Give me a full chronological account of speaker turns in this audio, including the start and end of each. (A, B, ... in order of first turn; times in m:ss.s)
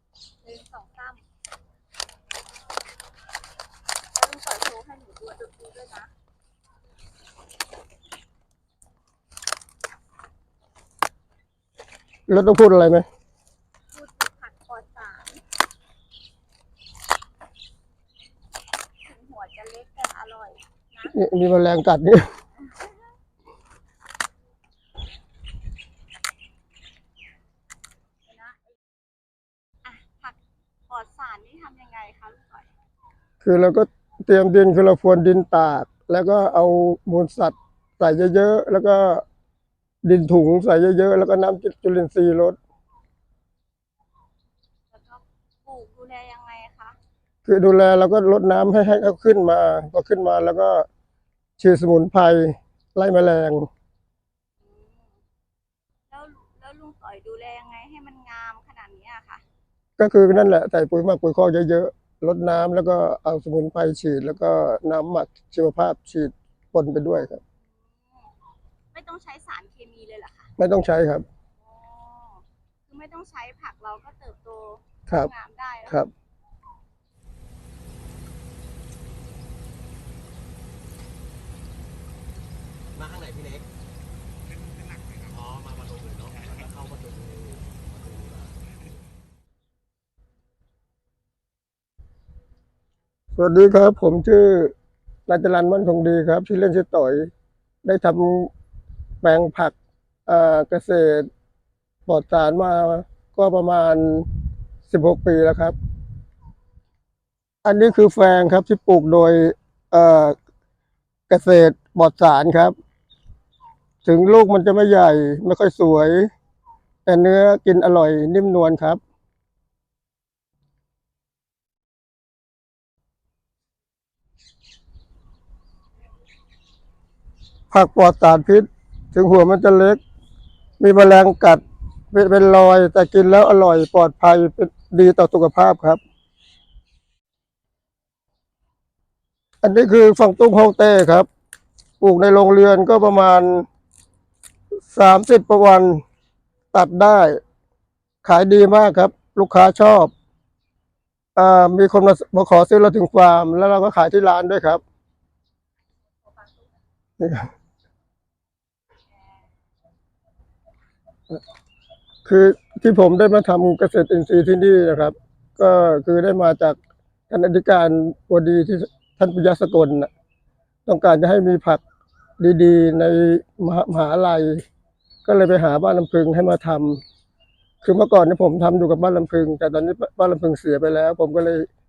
0:00.4-0:01.2 A
0:04.1-0:06.1 A
0:12.3-0:13.0 B
0:13.9-0:15.4 A
0:19.0-0:21.2 A
0:21.0-0:22.3 B
0:22.6-0:23.1 A
0:28.3-0:28.7 A
0:29.8-0:30.4 A
0:30.9-0:32.7 A
0:33.4-0:39.2 B
0:40.0-0:42.6 B
0:44.9-0:47.0 A
0:47.4-0:50.8 B
0:51.6-0:53.7 B
0:54.6-0:55.2 A
0:56.1-0:59.4 A
1:00.0-1:07.4 B
1:07.6-1:08.3 A
1:08.9-1:10.5 A
1:10.6-1:11.2 B
1:11.6-1:16.0 A
1:22.9-1:23.7 C
1:25.3-1:28.8 C
1:33.3-1:34.7 B
1:35.3-1:37.3 B
1:37.8-1:38.5 B
1:39.2-1:39.7 B
1:40.2-1:41.3 B
1:42.0-1:44.3 B
1:44.9-1:45.8 B
1:47.6-1:50.4 B
1:51.3-1:52.7 B
1:54.0-1:56.3 B
1:57.0-1:59.0 B
2:07.7-2:10.0 B
2:10.8-2:16.0 B
2:19.6-2:21.3 B
2:22.0-2:23.6 B
2:24.9-2:26.0 B
2:26.7-2:27.4 B
2:28.2-2:30.1 B
2:31.4-2:34.8 B
2:36.2-2:36.7 A
2:37.2-2:37.5 B
2:42.2-2:46.8 B
2:47.3-2:50.1 B
2:50.8-2:51.8 B
2:52.4-2:54.6 B
2:55.2-2:57.0 B
2:57.8-3:01.7 B